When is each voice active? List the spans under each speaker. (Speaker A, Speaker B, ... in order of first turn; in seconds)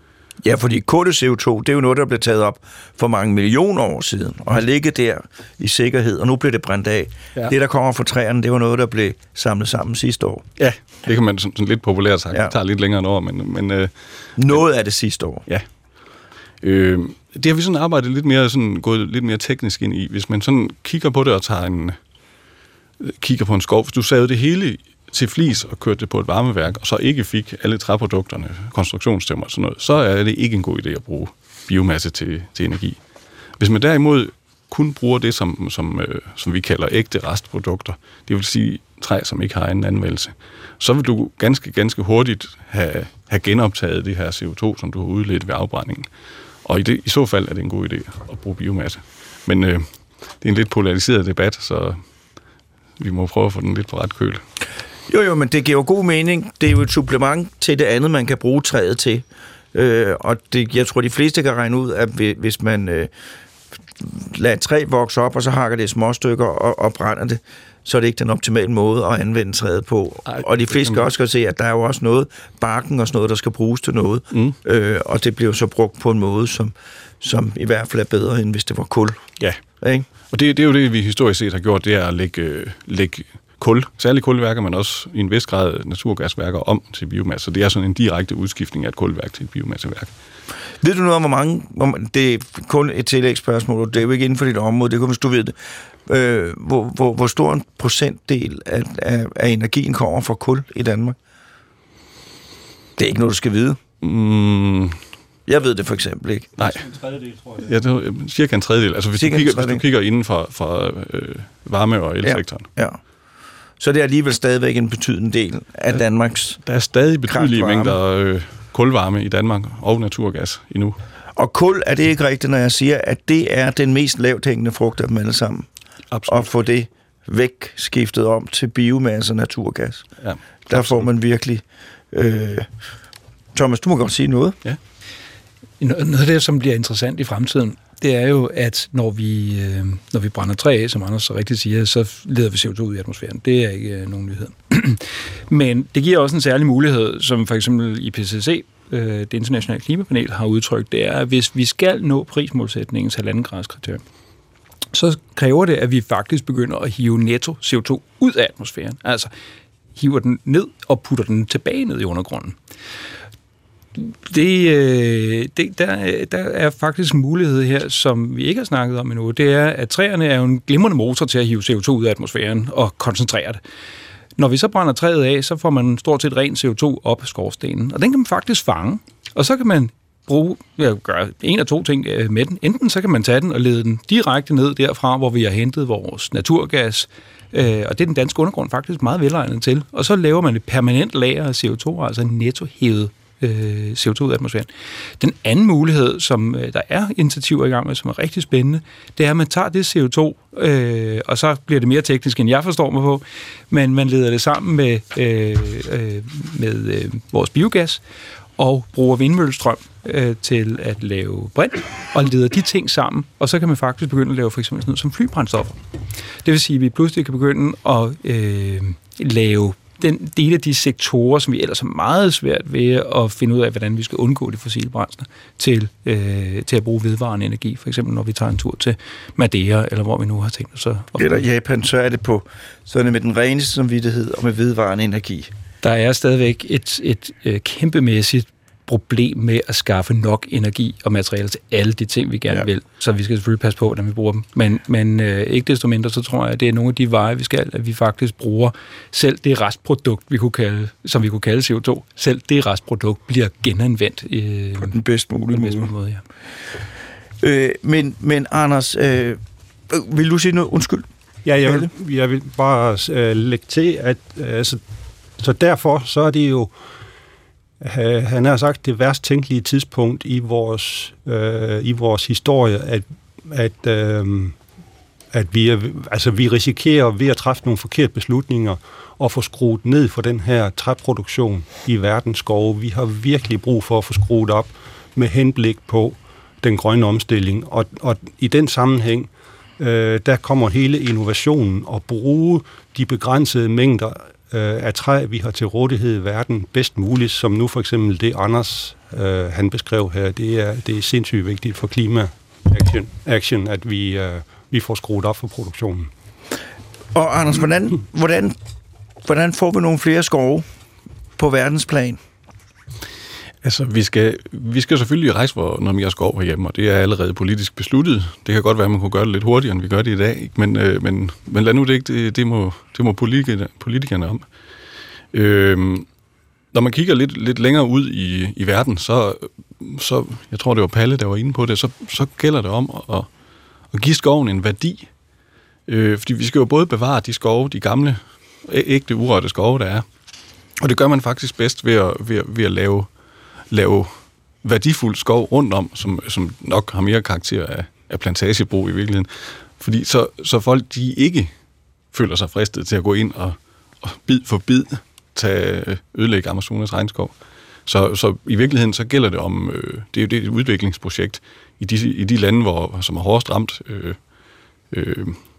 Speaker A: 0.4-10.4, 14.4-15.4, 55.1-63.1, 64.0-79.3, 79.8-80.0, 90.8-101.2, 103.0-103.8, 105.5-106.7, 109.2-109.8, 112.2-113.0, 113.8-116.6, 117.3-118.0, 121.3-125.7, 126.3-130.1, 130.7-132.7, 133.5-134.6, 231.2-235.5, 254.8-255.9, 257.4-261.1, 261.6-261.9, 307.1-308.6, 309.2-310.6, 311.4-312.2
Speaker B: 10.6-13.9, 16.6-22.0, 23.0-33.0, 33.6-46.1, 46.6-49.9, 50.4-52.0, 53.0-54.4, 70.2-71.1, 74.3-74.5, 80.3-90.1, 104.0-105.0, 106.6-112.7, 116.6-121.0, 126.1-126.5, 130.2-131.1, 313.6-324.4, 325.3-326.1, 326.7-333.3, 333.9-335.1, 335.9-340.0, 340.8-343.1, 343.7-344.1, 344.6-351.5, 352.1-357.3, 357.9-364.2, 364.9-365.4
Speaker C: 135.8-154.0, 154.9-159.3, 159.9-162.6, 164.0-173.6, 174.3-208.0, 208.6-215.8, 216.4-231.4, 235.8-256.2
Speaker D: 261.4-264.8, 265.4-266.7, 267.8-274.5, 275.3-289.3, 289.8-306.1